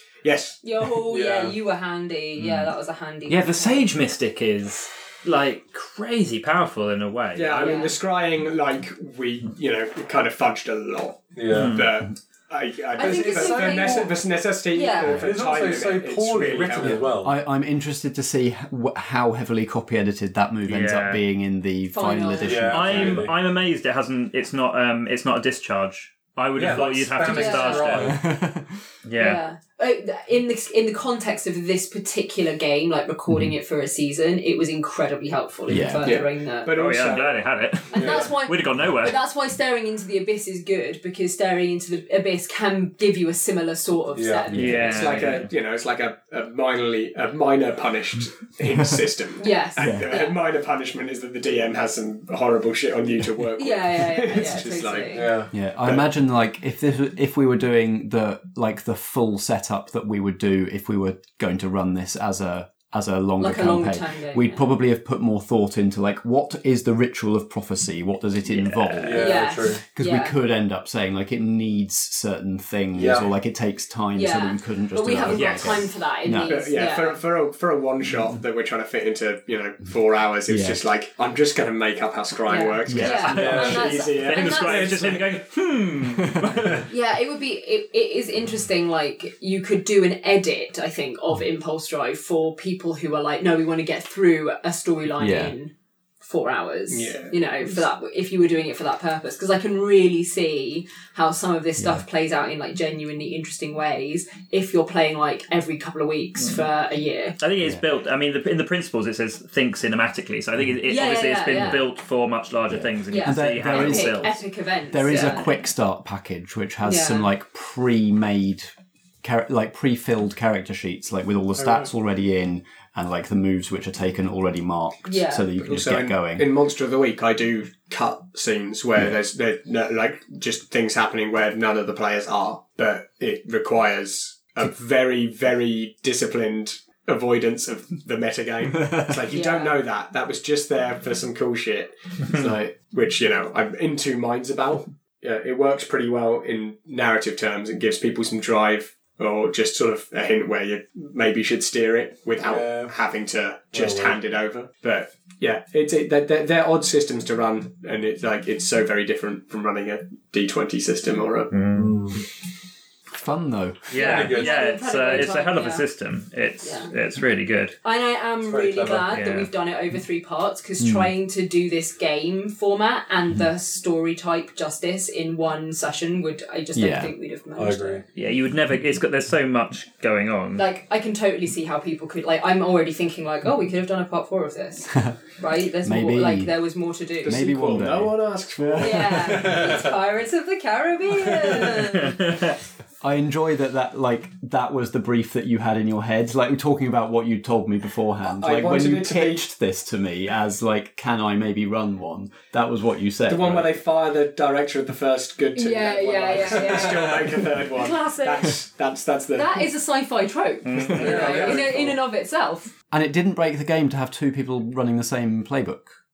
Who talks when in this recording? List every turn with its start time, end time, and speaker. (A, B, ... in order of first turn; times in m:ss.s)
0:00.2-0:00.6 A
0:00.6-0:03.9 B
0:01.1-0:01.6 C
0:02.4-0:02.7 D
0:03.3-0:07.8 D
0:07.3-0:17.1 A
0:07.5-0:07.9 B
0:11.3-0:11.8 C
0:11.5-0:11.9 D
0:13.0-0:14.1 B
0:13.0-0:14.1 C
0:14.7-0:15.3 B
0:15.0-0:17.4 C
0:17.2-0:23.2 E
0:20.7-0:21.2 D
0:21.9-0:23.2 B
0:22.4-0:23.4 C
0:22.7-0:28.1 D
0:26.6-0:28.2 C
0:27.2-0:28.1 B
0:28.0-0:28.8 E
0:29.0-0:29.4 D
0:29.2-0:36.7 B
0:35.7-0:36.2 E
0:36.0-0:37.5 A
0:36.7-0:39.2 D
0:37.9-0:45.4 B
0:37.9-0:38.3 C
0:44.1-0:44.8 C
0:44.5-0:45.4 D
0:44.8-0:55.3 A
0:49.4-0:50.4 B
0:49.8-0:50.1 E
0:53.6-0:55.3 B
0:55.1-0:55.5 C
0:55.5-1:16.6 E
1:03.4-1:04.7 B
1:08.5-1:09.3 D
1:09.0-1:09.8 C
1:09.1-1:10.4 B
1:12.9-1:13.3 C
1:14.1-1:17.2 B
1:15.3-1:15.8 D
1:16.4-1:25.4 A
1:20.5-1:20.8 E
1:22.5-1:25.1 B
1:22.9-1:23.3 E
1:23.0-1:26.9 D
1:23.3-1:23.9 C
1:26.2-1:26.7 E
1:26.8-1:47.4 B
1:35.2-1:35.5 E
1:36.9-1:37.4 A
1:41.8-1:42.0 E
1:47.4-1:54.4 D
1:50.8-1:51.8 B
1:52.7-1:54.4 E
1:53.1-1:55.6 B
1:54.9-2:06.5 E
1:56.8-1:57.3 B
2:05.0-2:05.5 B
2:05.6-2:41.5 A
2:19.3-2:19.8 B
2:32.4-2:32.9 C
2:33.7-2:34.2 C
2:41.5-2:41.9 D
2:41.7-2:42.2 C
2:43.1-2:43.9 E
2:43.9-2:47.7 D
2:43.9-2:45.8 B
2:44.0-2:44.6 C
2:46.6-2:46.9 B
2:47.8-2:58.0 B
2:48.4-2:49.2 C
2:49.1-2:49.5 D
2:50.8-2:51.1 E
2:56.7-2:57.1 E
2:57.6-2:58.0 C
2:58.1-3:00.6 D
3:00.6-3:07.5 B
3:05.8-3:06.6 E
3:07.2-3:09.4 A
3:07.2-3:09.5 E
3:08.8-3:12.2 B
3:09.2-3:10.0 C
3:11.3-3:11.8 C
3:12.0-3:12.4 D
3:13.0-3:23.7 E
3:18.2-3:19.4 A
3:23.2-3:29.7 A
3:25.6-3:28.5 B
3:26.7-3:27.2 C
3:29.3-3:32.7 B
3:30.6-3:31.3 D
3:30.8-3:31.8 C
3:30.9-3:32.0 A
3:32.9-3:36.0 E